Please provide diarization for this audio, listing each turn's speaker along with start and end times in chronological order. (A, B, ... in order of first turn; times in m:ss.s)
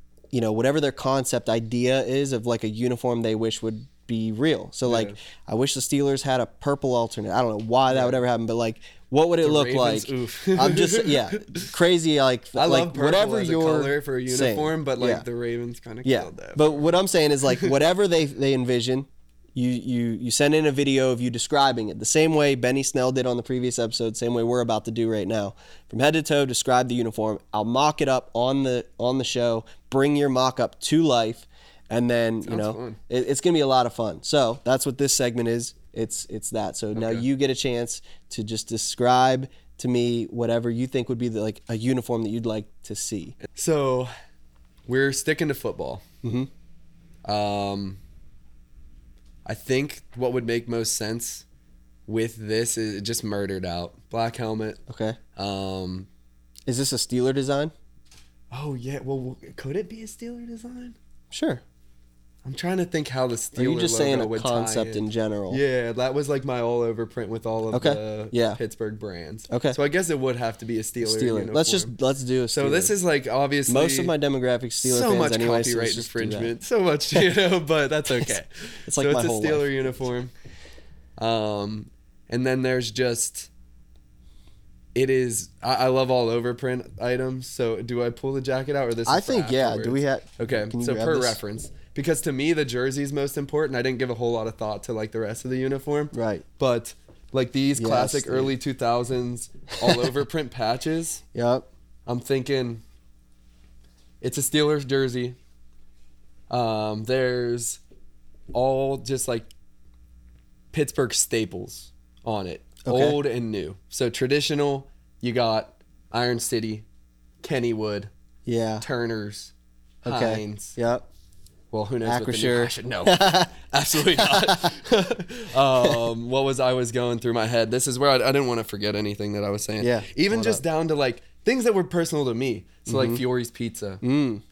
0:00.3-0:15.2 A
0:04.9-0:05.2 B
0:07.9-0:08.2 B
0:09.4-0:11.7 B
0:12.5-0:16.8 B
0:16.0-0:43.4 A
0:32.4-0:33.0 B
0:36.9-0:37.3 B
0:43.5-0:44.1 B
0:44.9-0:46.0 B
0:46.2-0:46.5 A
0:47.2-0:48.0 B
0:49.4-0:51.4 B
0:52.1-0:54.8 B
0:54.9-0:55.2 A
0:55.4-0:56.1 B
0:56.7-0:57.7 A
0:58.5-1:01.0 B
1:01.3-1:01.6 A
1:02.4-1:11.9 B
1:03.5-1:05.6 A
1:07.7-1:08.6 A
1:09.5-1:09.8 A
1:11.0-1:12.9 A
1:12.5-1:14.1 B
1:13.7-1:16.5 A
1:14.8-1:20.3 B
1:18.9-1:19.7 A
1:21.2-1:23.5 B
1:24.9-1:41.2 B
1:29.0-1:31.4 A
1:36.1-1:36.4 A
1:37.8-1:38.5 A
1:41.3-1:41.6 A
1:42.1-1:42.8 B
1:44.2-1:45.4 B
1:46.5-1:47.8 B
1:48.5-1:49.5 B
1:50.7-1:56.8 B
1:52.8-1:53.2 A
1:57.4-1:58.1 B
1:58.4-1:58.8 A
1:58.8-1:59.5 B
2:00.0-2:00.8 B
2:00.0-2:01.0 A
2:01.7-2:14.0 B
2:02.0-2:03.5 A
2:04.2-2:04.7 A
2:09.8-2:10.6 A
2:12.9-2:13.2 A
2:14.0-2:14.4 A